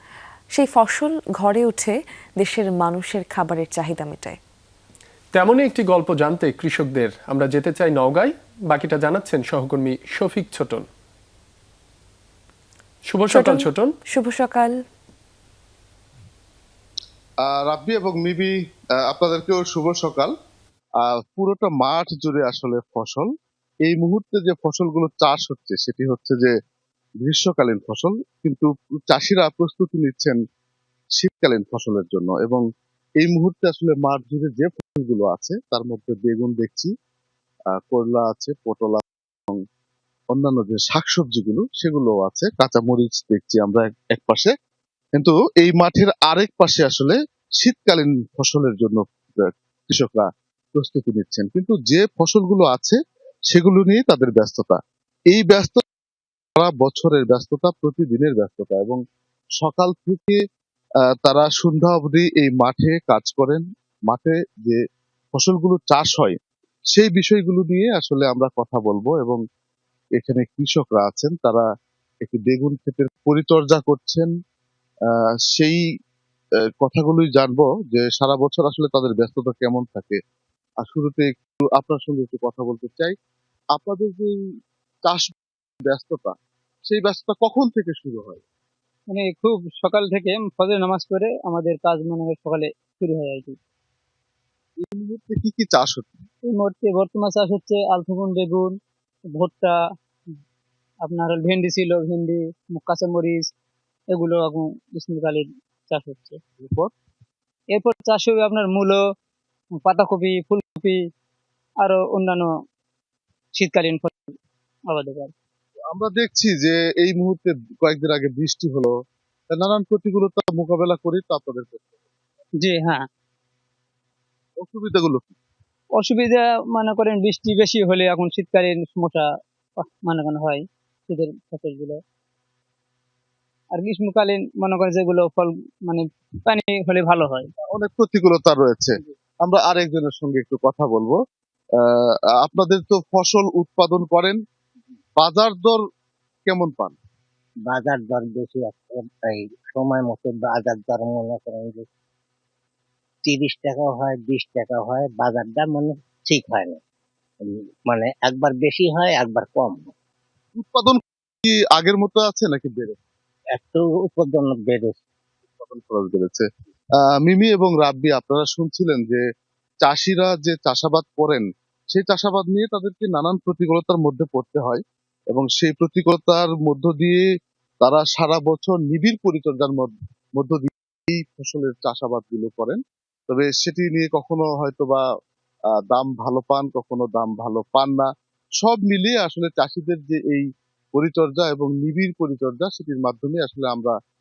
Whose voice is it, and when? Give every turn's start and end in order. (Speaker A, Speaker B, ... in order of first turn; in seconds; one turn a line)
Speaker A: 0.5-4.4
Speaker B: 5.3-10.9
Speaker B: 13.1-13.9
Speaker A: 13.3-14.7
Speaker C: 17.4-18.5
Speaker C: 19.0-20.3
Speaker C: 21.0-23.3
Speaker C: 23.8-26.5
Speaker C: 27.2-30.4
Speaker C: 31.2-32.6
Speaker C: 33.2-36.9
Speaker C: 37.8-39.6
Speaker C: 40.3-44.5
Speaker C: 45.1-53.0
Speaker C: 53.5-54.8
Speaker C: 55.3-55.8
Speaker C: 56.6-59.0
Speaker C: 59.6-60.4
Speaker C: 61.2-64.8
Speaker C: 65.3-66.4
Speaker C: 66.9-69.4
Speaker C: 70.2-71.7
Speaker C: 72.2-74.3
Speaker C: 75.5-75.8
Speaker C: 76.8-80.2
Speaker C: 80.8-83.1
Speaker C: 83.7-84.3
Speaker C: 85.0-86.3
Speaker C: 86.9-88.4
Speaker D: 89.1-93.5
Speaker C: 94.8-96.2
Speaker D: 96.5-98.7
Speaker D: 99.4-99.8
Speaker D: 101.0-103.5
Speaker D: 104.1-106.4
Speaker C: 106.6-106.9
Speaker D: 107.7-109.0
Speaker D: 109.8-111.0
Speaker D: 111.8-112.5
Speaker D: 113.6-114.3
Speaker D: 114.9-115.3
Speaker C: 115.9-118.9
Speaker C: 119.5-122.0
Speaker D: 122.6-123.0
Speaker C: 124.6-125.4
Speaker D: 126.0-129.3
Speaker D: 129.9-132.0
Speaker D: 133.7-137.5
Speaker C: 137.6-141.2
Speaker C: 141.8-144.4
Speaker C: 145.2-145.8
Speaker C: 146.4-146.9
Speaker E: 147.7-151.8
Speaker E: 153.2-156.8
Speaker E: 157.4-159.9
Speaker C: 160.5-163.0
Speaker E: 163.5-165.0
Speaker C: 165.5-166.5
Speaker C: 167.2-169.2
Speaker C: 169.8-177.2
Speaker C: 177.8-185.0
Speaker C: 185.9-188.1
Speaker C: 188.6-193.9